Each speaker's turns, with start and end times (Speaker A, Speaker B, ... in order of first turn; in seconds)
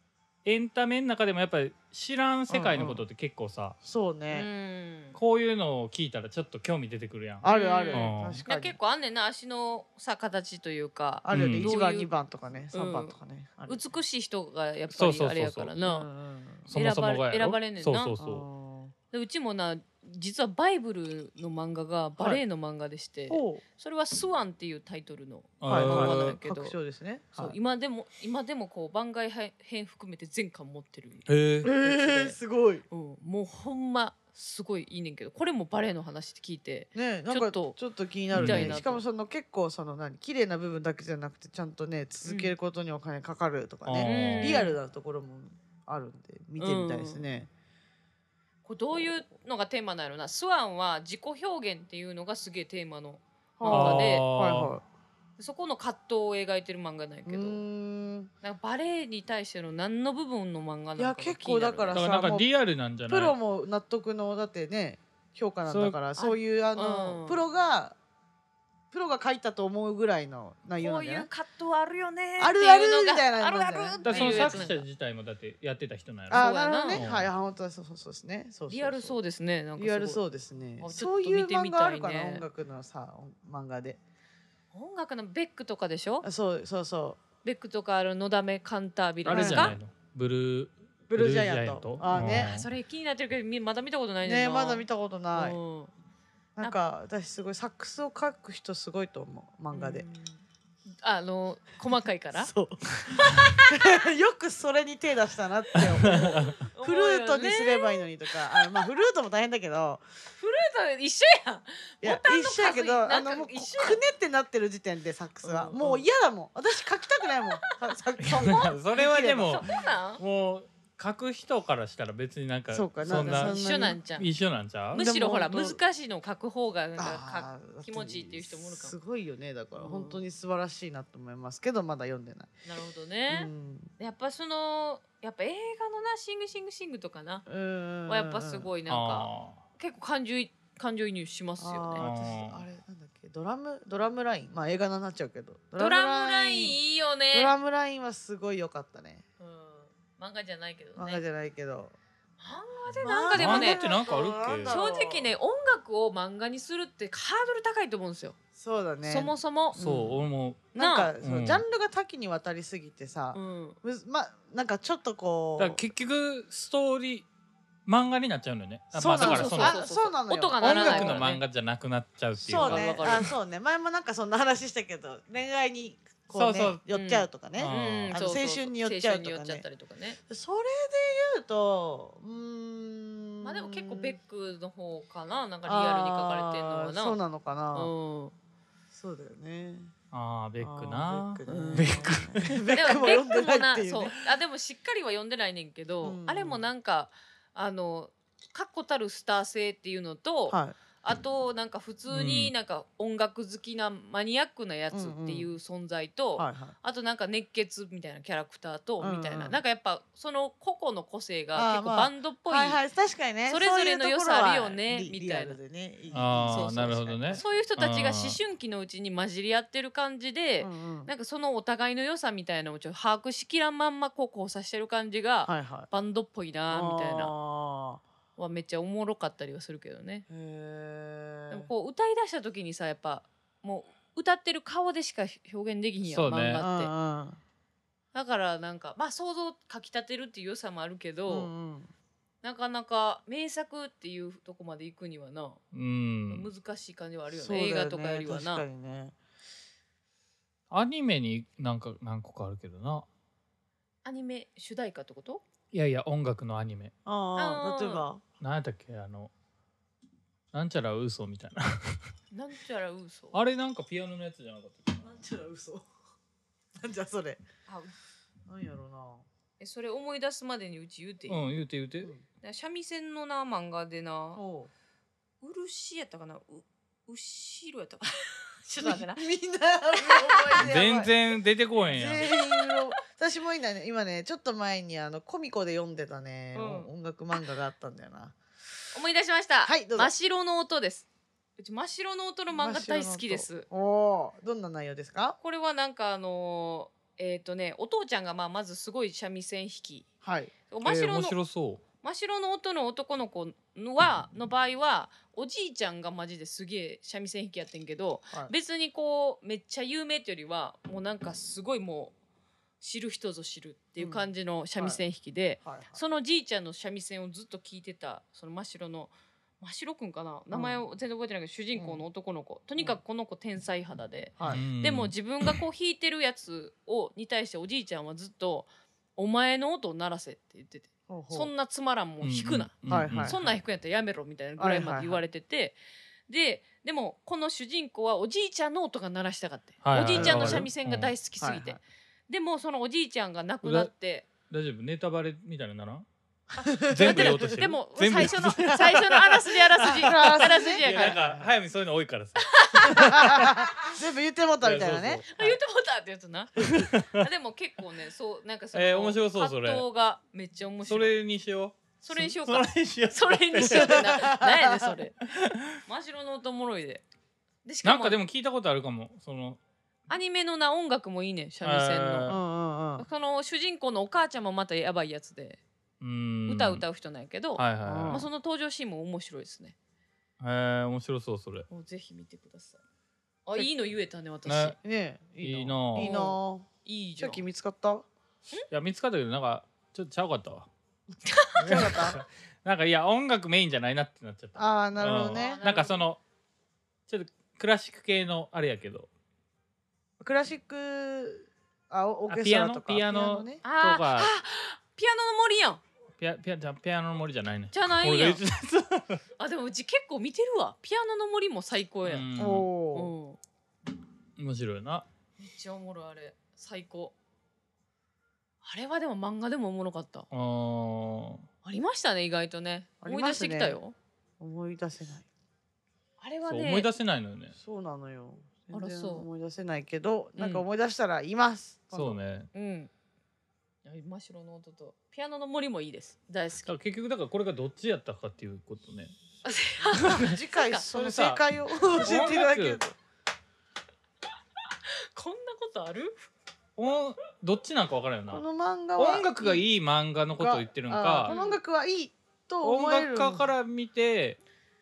Speaker A: 0.5-3.8, 5.2-8.4, 11.3-11.7, 14.9-15.7, 16.7-18.4, 25.6-26.4, 31.3-31.7, 38.3-38.8, 43.9-44.6, 53.7-54.8, 61.9-63.4, 65.7-66.0, 74.0-77.3, 89.2-92.7, 106.0-106.6, 118.2-123.6, 124.2-125.0, 138.9-139.6, 142.0-142.6, 153.3-154.8, 159.8-160.7, 161.2-161.6, 165.6-167.3, 167.9-169.8, 170.6-173.0, 176.3-176.8, 177.6-178.2, 190.1-192.7, 202.1-202.5, 216.1-218.4, 236.1-236.6, 245.7-246.5, 250.7-253.1, 255.7-256.9, 258.4-259.3, 260.5-262.0, 263.3-265.1, 271.3-272.1, 280.6-282.3, 300.8-301.8, 324.5-325.5, 332.2-333.4, 339.8-341.1, 343.6-343.9, 344.5-346.1, 346.7-353.7, 354.6-355.6, 356.6-357.3, 358.7-359.9, 360.9-364.3, 365.3-365.8, 367.8-369.6, 371.6-372.4, 376.0-376.8, 377.6-378.2, 380.4-381.7, 384.5-384.8, 385.4-386.1, 388.7-390.7, 391.6-396.2, 397.1-399.1, 402.3-404.3, 406.2-409.2, 412.0-412.7, 414.4-415.1, 420.3-421.5, 426.5-427.6, 431.9-432.5, 436.7-439.1, 439.9-440.4, 440.9-442.8, 446.8-448.4, 449.0-451.3, 452.6-454.4
Speaker B: 2.5-3.0, 3.8-4.5, 7.4-8.8, 11.2-13.8, 15.8-16.7, 18.2-18.9, 23.3-23.6, 25.7-27.6, 31.6-32.9, 37.0-47.5, 53.6-54.8, 57.3-58.3, 61.0-62.5, 63.1-68.0, 68.9-71.3, 72.4-74.7, 76.3-79.2, 79.8-84.0, 86.2-87.2, 89.3-89.8, 91.1-92.5, 94.2-95.6, 96.6-100.1, 102.3-110.0, 112.0-119.8, 122.7-124.0, 124.9-125.8, 127.0-132.5, 133.3-133.9, 137.5-138.7, 141.6-146.8, 147.3-149.2, 151.0-151.9, 153.0-155.3, 158.6-160.2, 160.7-165.8, 168.9-171.2, 172.4-179.7, 180.3-184.2, 185.6-187.9, 188.9-189.9, 190.6-194.3, 196.0-196.7, 200.5-200.8, 204.9-205.5, 206.4-206.8, 209.0-209.6, 211.5-217.6, 220.6-221.1, 225.5-225.9, 226.7-228.0, 230.3-231.7, 236.6-237.4, 241.3-241.9, 247.3-249.2, 257.1-258.2, 265.0-265.9, 266.8-267.4, 268.5-269.3, 274.4-274.7, 278.8-281.1, 281.9-288.4, 289.6-290.1, 292.5-295.4, 300.2-300.5, 314.0-315.0, 315.6-316.0, 320.5-320.8, 321.8-322.0, 324.4-324.6, 331.1-331.5, 332.9-333.6, 334.6-335.2, 340.1-340.7, 341.4-341.8, 346.7-347.6, 348.2-349.0, 349.8-351.5, 352.9-355.2, 363.6-365.0, 372.3-373.1, 377.9-378.3, 384.8-386.7, 387.2-388.1, 391.6-392.2, 394.6-395.6, 400.2-403.6, 412.4-413.1, 423.0-423.8, 424.4-425.3, 427.6-432.2, 439.8-443.0, 448.3-449.6, 450.4-453.5
Speaker C: 4.3-5.2, 7.5-12.1, 12.7-13.1, 13.7-16.1, 16.7-18.1, 19.1-26.8, 27.4-32.4, 32.9-37.8, 38.3-39.0, 42.2-42.5, 44.0-44.8, 46.6-47.2, 48.6-54.3, 55.4-57.6, 58.4-62.0, 66.2-67.4, 70.8-74.8, 76.3-77.0, 78.7-80.2, 80.8-82.5, 84.7-86.2, 87.4-89.8, 92.1-95.9, 99.7-100.4, 101.0-102.5, 103.1-104.0, 105.8-108.7, 110.4-114.0, 115.4-116.0, 117.0-118.8, 119.4-120.2, 123.0-124.3, 124.9-128.9, 129.8-130.2, 132.7-137.4, 138.1-142.1, 145.8-147.5, 149.4-151.2, 152.4-153.9, 154.7-158.4, 159.0-159.8, 160.8-161.1, 163.3-163.8, 169.1-171.4, 172.5-173.3, 176.9-180.2, 183.4-187.2, 187.7-188.3, 191.5-192.1, 192.7-212.8, 213.5-215.6, 216.3-227.3, 228.4-230.3, 231.5-236.9, 238.1-241.5, 242.4-245.6, 246.3-248.6, 254.0-255.4, 257.4-258.0, 262.3-263.4, 267.7-267.9, 269.6-271.4, 272.4-274.4, 275.4-279.2, 280.0-280.8, 282.2-282.9, 286.5-286.9, 288.9-291.1, 291.6-293.7, 295.4-300.1, 300.7-301.4, 302.0-312.1, 312.8-335.8, 336.3-344.3, 346.6-351.3, 352.4-353.6, 355.3-361.2, 362.0-365.2, 365.8-367.0, 367.6-368.2, 370.1-372.4, 373.0-375.6, 376.5-379.8, 381.7-382.8, 383.5-384.8, 386.0-387.5, 391.3-391.9, 395.1-396.1, 403.6-405.8, 407.7-408.4, 409.4-412.3, 412.9-413.4, 415.4-417.1, 418.6-420.3, 421.6-423.9, 426.2-426.9, 428.7-429.3, 430.4-430.6, 432.5-432.9, 433.9-436.7, 439.4-440.9, 444.9-446.2, 451.3-451.6